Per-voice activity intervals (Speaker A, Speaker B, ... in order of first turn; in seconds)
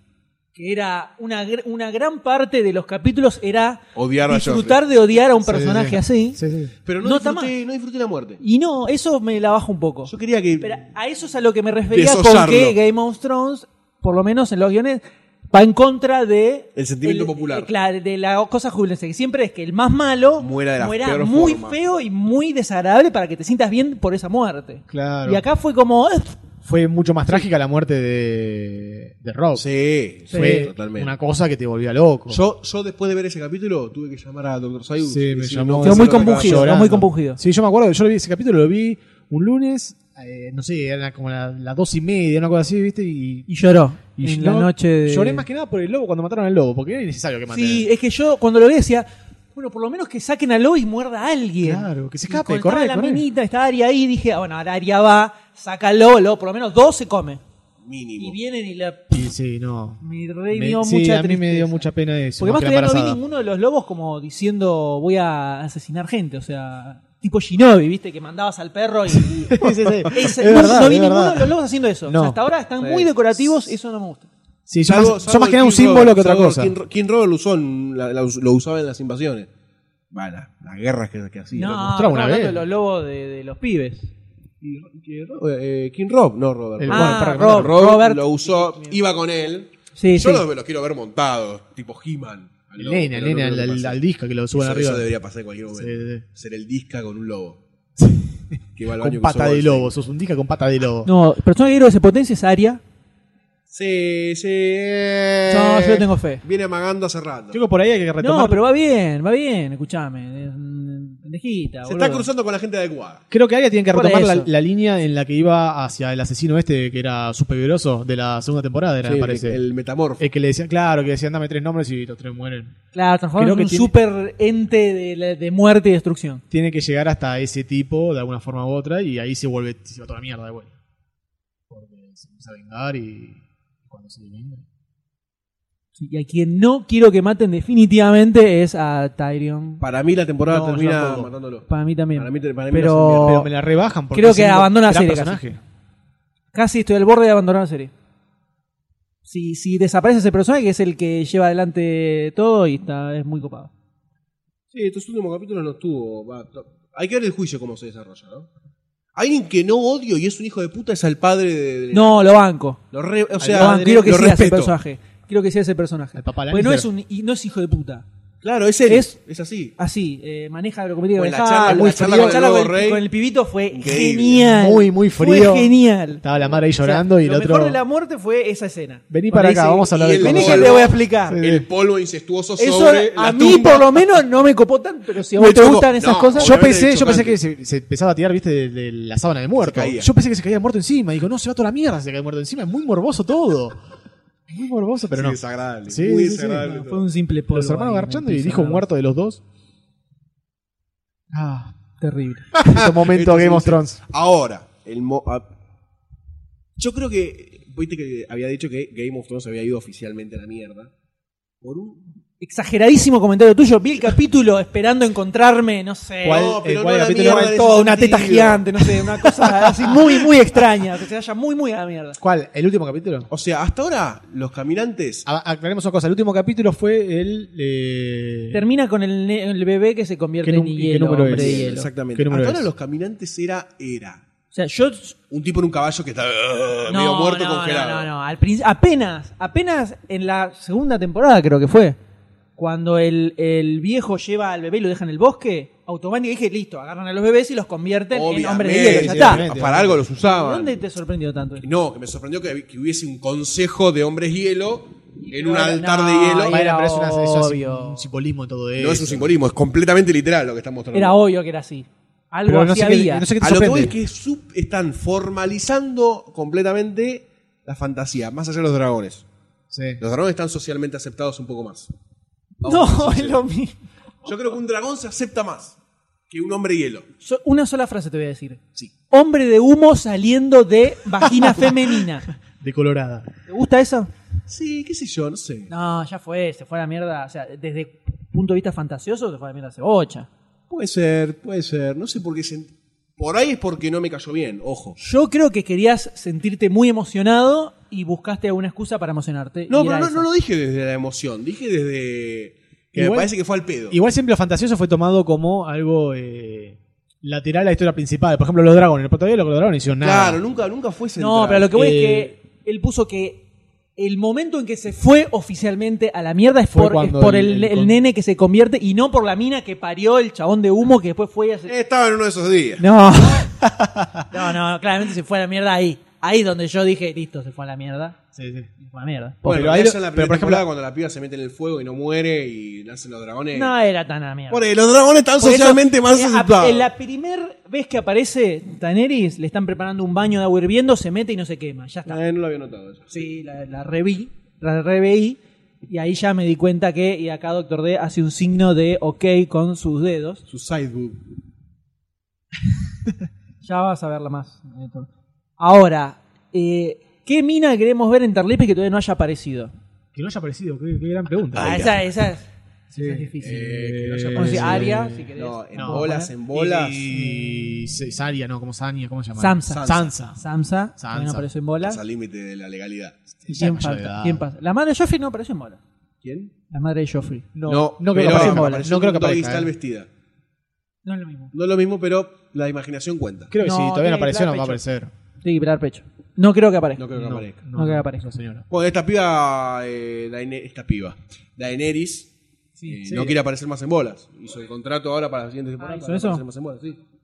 Speaker A: 0.5-6.4, 7.0-7.5, 8.4-26.4, 30.3-30.7, 35.8-37.4, 43.5-45.5, 47.5-57.4, 58.2-59.1, 60.0-61.9, 62.4-74.3, 81.5-84.1, 86.9-89.0, 89.9-90.4, 101.0-102.8, 105.5-106.4, 108.2-112.3, 113.9-114.5, 122.9-126.4, 135.9-139.8, 141.7-143.5, 144.1-145.4, 146.5-147.9, 149.2-153.7, 161.9-162.8, 163.5-168.0, 168.9-169.2, 169.8-176.2, 176.8-181.4, 182.6-186.5, 196.6-198.8, 202.0-202.6, 212.4-216.6, 217.2-222.2, 228.5-231.9, 234.5-235.2, 236.9-242.0, 242.6-249.5, 250.2-251.6, 255.2-258.1, 260.9-263.3, 272.6-273.8, 277.2-282.3, 283.5-284.1, 285.7-290.3, 295.0-300.2, 311.2-313.4, 314.0-321.7, 322.8-323.6, 324.3-328.2, 328.8-329.9, 333.5-334.6, 335.4-342.2, 343.1-350.4, 353.6-359.7, 361.5-363.7, 364.3-366.3, 367.1-367.9, 369.4-372.0, 373.5-375.8, 376.7-377.5, 378.1-378.9, 381.0-381.5, 383.6-384.8, 385.4-387.1, 387.7-388.3, 392.8-393.3, 395.8-396.4
Speaker B: 3.9-4.8, 6.8-8.4, 10.1-10.8, 11.9-12.8, 16.7-17.7, 20.4-21.8, 29.5-31.1, 32.3-36.7, 57.8-58.4, 72.8-73.1, 74.8-79.5, 80.1-81.9, 84.6-94.0, 94.5-97.6, 98.8-99.9, 103.7-107.6, 111.8-113.2, 119.0-120.2, 139.8-143.4, 154.7-158.5, 159.1-162.2, 162.9-164.8, 168.4-169.7, 171.2-173.1, 173.7-174.5, 179.9-184.0, 185.3-187.4, 189.6-190.1, 195.1-197.0, 202.7-205.5, 206.8-210.9, 211.6-212.0, 216.2-218.7, 223.3-225.2, 231.3-234.2, 235.3-238.1, 248.1-250.7, 251.6-256.6, 258.8-261.2, 263.4-269.2, 270.0-271.9, 272.6-273.4, 274.2-275.8, 276.3-277.1, 284.5-285.7, 290.7-295.0, 299.7-304.0, 310.0-311.8, 321.7-322.8, 329.4-333.7, 334.5-336.9, 342.1-343.2, 350.5-351.2, 361.6-362.0, 363.4-367.1, 369.7-370.1, 371.8-373.2, 376.2-376.5, 377.6-380.1, 381.5-383.5, 387.0-387.6, 388.7-392.3, 392.9-397.0
Speaker C: 5.4-6.7, 24.9-25.4, 26.6-29.6, 30.3-32.4, 35.0-43.5, 44.2-47.9, 51.6-53.2, 59.1-63.2, 69.1-72.4, 74.7-76.8, 81.8-82.6, 86.8-87.8, 92.8-95.1, 95.7-96.2, 98.0-101.1, 107.5-108.6, 113.3-119.6, 120.2-122.8, 123.4-123.9, 126.5-130.7, 131.7-134.6, 140.4-141.3, 143.1-145.6, 163.4-164.3, 166.1-166.9, 171.6-172.4, 174.5-177.8, 179.1-181.7, 186.4-193.8, 194.5-196.8, 197.5-199.4, 201.3-201.7, 202.5-204.0, 216.2-218.0, 219.4-219.9, 222.2-223.3, 225.2-228.6, 230.4-232.7, 248.7-250.1, 256.5-259.3, 262.4-263.9, 269.7-270.0, 282.6-283.3, 302.9-303.3, 303.9-310.4, 311.7-312.3, 316.7-318.0, 323.6-324.3, 328.3-328.7, 329.5-330.6, 360.1-362.0, 362.9-370.4, 371.0-371.5, 373.4-374.4, 377.5-379.7, 383.5-385.1, 387.1-388.7